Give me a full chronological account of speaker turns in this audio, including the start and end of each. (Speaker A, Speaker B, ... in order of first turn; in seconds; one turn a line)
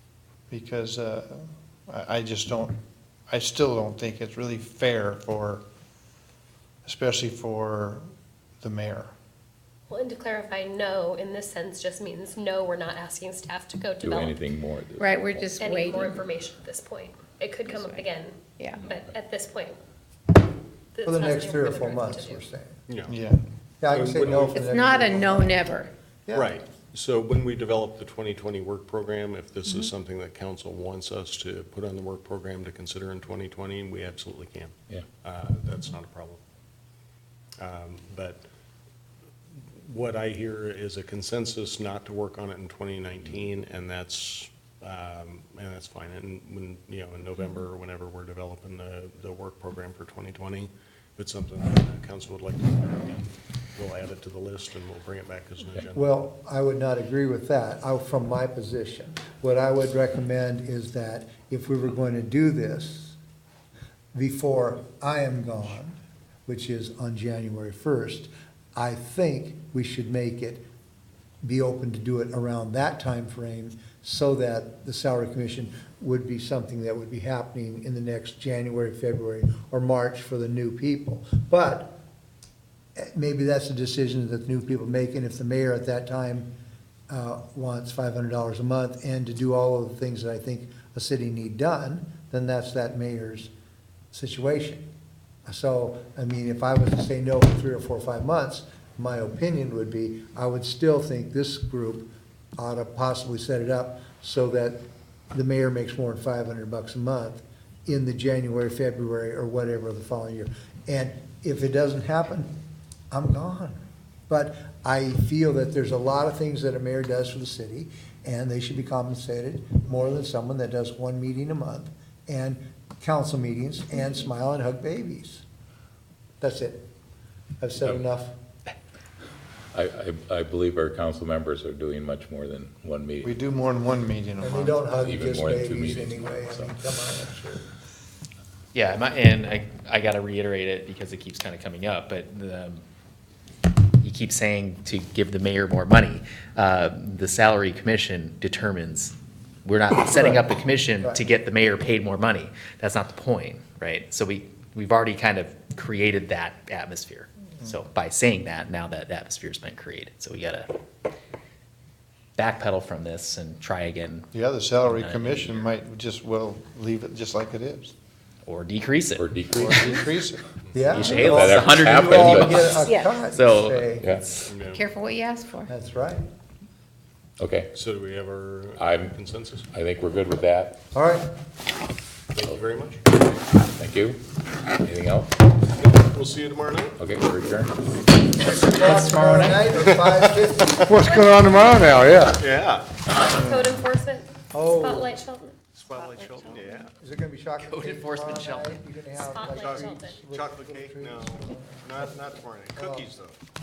Speaker A: 0.5-2.8
Speaker A: 3.3-5.6
Speaker A: 6.9-8.0
Speaker A: 8.6-9.1
Speaker B: 9.9-14.4
Speaker C: 14.0-15.5
Speaker D: 15.0-16.2
Speaker B: 15.6-19.8
Speaker D: 17.7-18.1
Speaker D: 18.6-18.9
Speaker B: 20.9-22.4
Speaker E: 21.0-22.8
Speaker F: 22.9-23.1
Speaker A: 23.1-23.4
Speaker E: 23.8-26.6
Speaker F: 23.9-24.8
Speaker D: 24.5-25.9
Speaker F: 26.3-36.4
Speaker F: 37.6-38.4
Speaker F: 39.6-56.1
Speaker E: 55.9-63.2
Speaker E: 64.1-70.6
Speaker E: 71.4-81.9
Speaker E: 83.0-86.5
Speaker E: 87.1-93.5
Speaker E: 94.1-94.8
Speaker E: 95.5-104.8
Speaker E: 105.3-112.5
Speaker E: 113.1-125.5
Speaker E: 126.4-126.8
Speaker E: 127.6-128.3
Speaker C: 129.7-133.4
Speaker A: 133.2-134.9
Speaker E: 134.4-137.7
Speaker C: 135.0-136.7
Speaker G: 138.7-142.8
Speaker G: 144.0-160.7
Speaker E: 150.1-150.4
Speaker G: 162.4-164.3
Speaker A: 164.3-167.9
Speaker G: 164.8-165.7
Speaker G: 168.4-169.3
Speaker C: 169.2-170.2
Speaker A: 169.5-170.4
Speaker F: 170.6-171.1
Speaker E: 170.7-174.2
Speaker G: 170.9-174.4
Speaker C: 171.0-172.8
Speaker D: 172.7-173.3
Speaker C: 174.0-174.3
Speaker F: 174.5-174.9
Speaker D: 174.7-175.7
Speaker E: 175.7-176.3
Speaker C: 177.4-177.7
Speaker F: 177.7-179.7
Speaker C: 178.8-179.2
Speaker C: 179.7-180.8
Speaker E: 180.9-181.3
Speaker F: 182.3-183.0
Speaker C: 183.6-184.2
Speaker C: 184.8-185.4
Speaker F: 185.8-187.0
Speaker C: 187.0-187.7
Speaker E: 188.5-190.9
Speaker F: 189.8-190.8
Speaker A: 191.0-192.0
Speaker B: 191.1-191.8
Speaker E: 192.0-192.4
Speaker F: 192.3-192.9
Speaker B: 193.2-195.6
Speaker E: 194.5-195.2
Speaker F: 195.8-196.9
Speaker E: 197.0-203.2
Speaker G: 197.6-198.8
Speaker B: 199.1-200.2
Speaker F: 199.5-203.4